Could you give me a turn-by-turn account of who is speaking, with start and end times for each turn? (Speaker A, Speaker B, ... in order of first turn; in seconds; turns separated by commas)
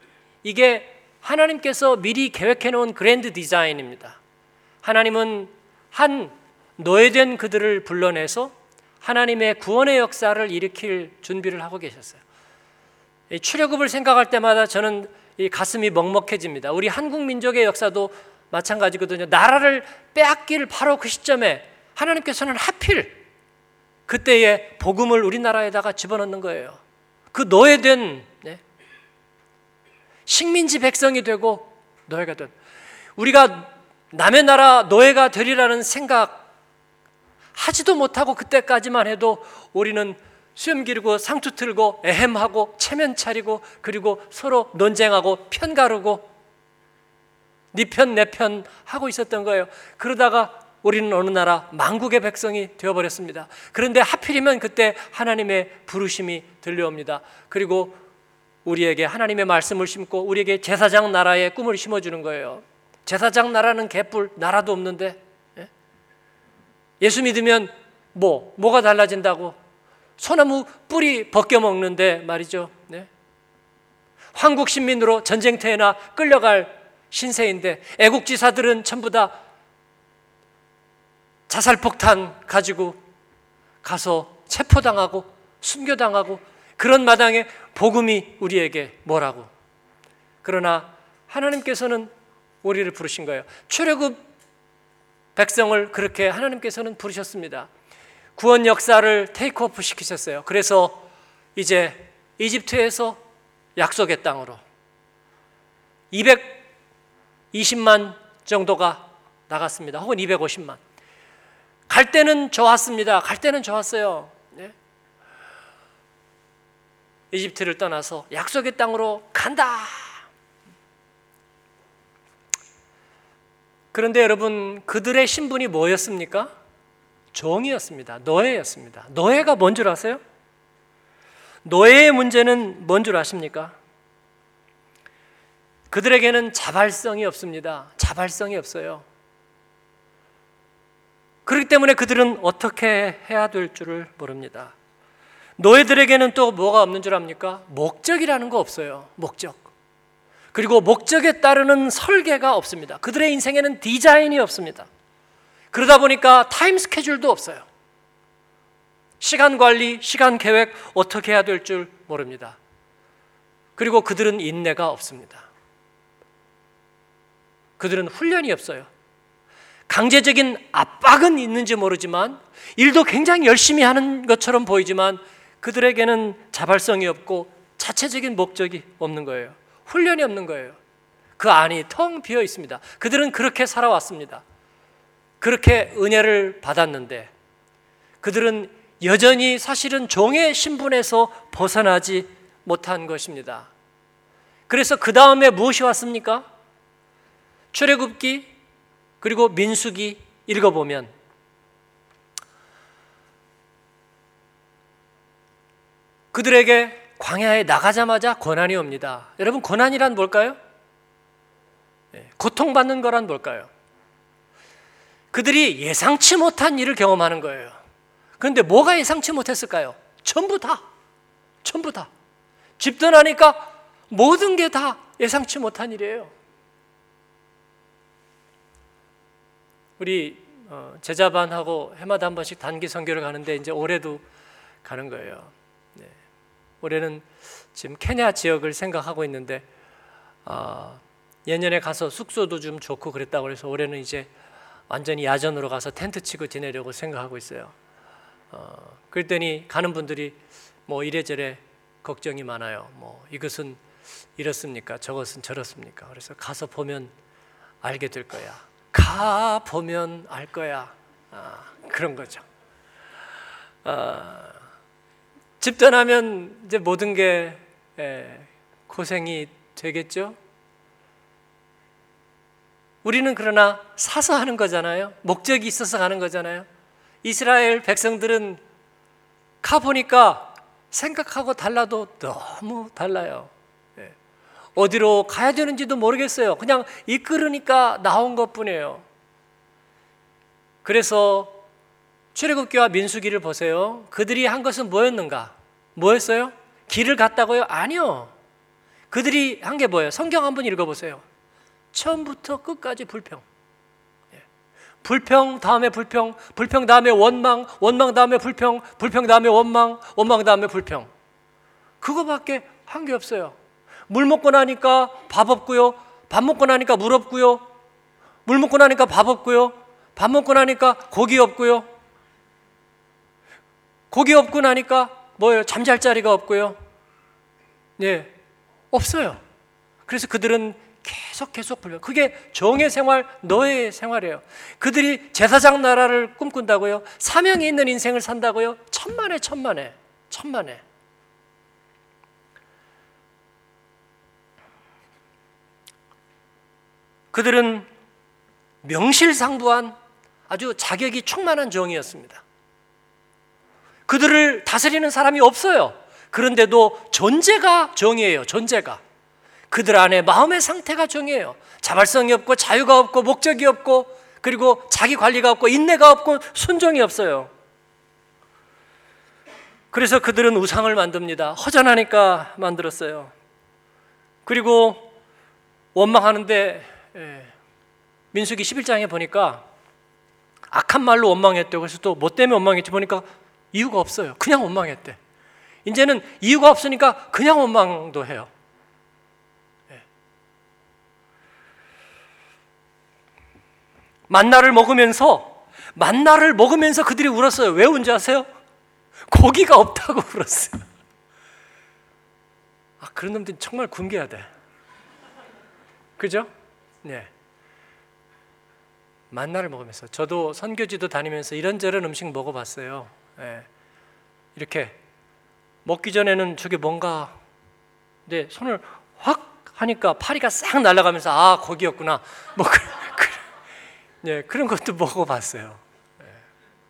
Speaker A: 0.4-4.2, Speaker A: 4.8-12.2, Speaker A: 13.3-23.2, Speaker A: 24.1-26.8, Speaker A: 27.3-28.6, Speaker A: 30.2-32.5, Speaker A: 33.2-36.4, Speaker A: 37.5-46.3, Speaker A: 47.7-58.0, Speaker A: 58.6-65.7, Speaker A: 67.0-69.6, Speaker A: 70.2-73.1, Speaker A: 74.3-79.3, Speaker A: 81.5-83.0, Speaker A: 83.8-89.5, Speaker A: 90.4-92.1, Speaker A: 92.6-94.2, Speaker A: 95.3-97.7, Speaker A: 98.3-101.0, Speaker A: 101.5-103.2, Speaker A: 103.8-104.6, Speaker A: 106.1-106.6, Speaker A: 107.5-110.8, Speaker A: 111.9-114.7, Speaker A: 117.3-120.2, Speaker A: 123.9-126.5, Speaker A: 127.3-130.2, Speaker A: 131.6-133.8, Speaker A: 135.9-139.0, Speaker A: 141.4-144.7, Speaker A: 145.6-149.7, Speaker A: 150.5-154.9, Speaker A: 155.7-157.6, Speaker A: 159.2-162.6, Speaker A: 163.8-165.5, Speaker A: 167.8-168.9, Speaker A: 169.9-180.8, Speaker A: 181.4-184.4, Speaker A: 185.4-187.3, Speaker A: 188.2-193.7, Speaker A: 194.7-196.5, Speaker A: 197.7-198.5, Speaker A: 199.2-201.1, Speaker A: 206.3-210.6, Speaker A: 212.1-213.7, Speaker A: 215.3-217.8, Speaker A: 218.4-220.8, Speaker A: 221.6-222.1, Speaker A: 222.8-226.3, Speaker A: 230.0-234.2, Speaker A: 234.8-236.1, Speaker A: 236.8-239.7, Speaker A: 240.4-244.3, Speaker A: 244.9-247.7, Speaker A: 248.5-253.8, Speaker A: 254.4-257.1, Speaker A: 257.8-262.4, Speaker A: 263.8-264.6, Speaker A: 265.6-270.4, Speaker A: 273.0-276.7, Speaker A: 277.2-278.6, Speaker A: 279.6-284.1, Speaker A: 284.8-289.0, Speaker A: 290.8-291.6, Speaker A: 292.3-298.3, Speaker A: 299.1-301.2, Speaker A: 301.9-303.4, Speaker A: 305.0-311.1, Speaker A: 312.0-313.6, Speaker A: 314.1-317.6, Speaker A: 318.4-321.9, Speaker A: 324.1-326.8, Speaker A: 328.0-328.3, Speaker A: 328.9-329.4, Speaker A: 330.1-340.8, Speaker A: 347.3-347.9, Speaker A: 348.8-349.9, Speaker A: 350.5-352.4, Speaker A: 354.1-359.0, Speaker A: 359.7-367.5, Speaker A: 369.9-373.3, Speaker A: 374.4-375.1, Speaker A: 375.9-377.5, Speaker A: 378.3-379.6, Speaker A: 380.7-385.2, Speaker A: 385.8-388.5, Speaker A: 394.3-398.5, Speaker A: 399.3-400.9, Speaker A: 403.0-404.5, Speaker A: 406.2-406.5, Speaker A: 407.0-407.3, Speaker A: 409.3-413.7, Speaker A: 414.6-414.9, Speaker A: 415.8-417.4, Speaker A: 418.2-423.4, Speaker A: 424.2-425.8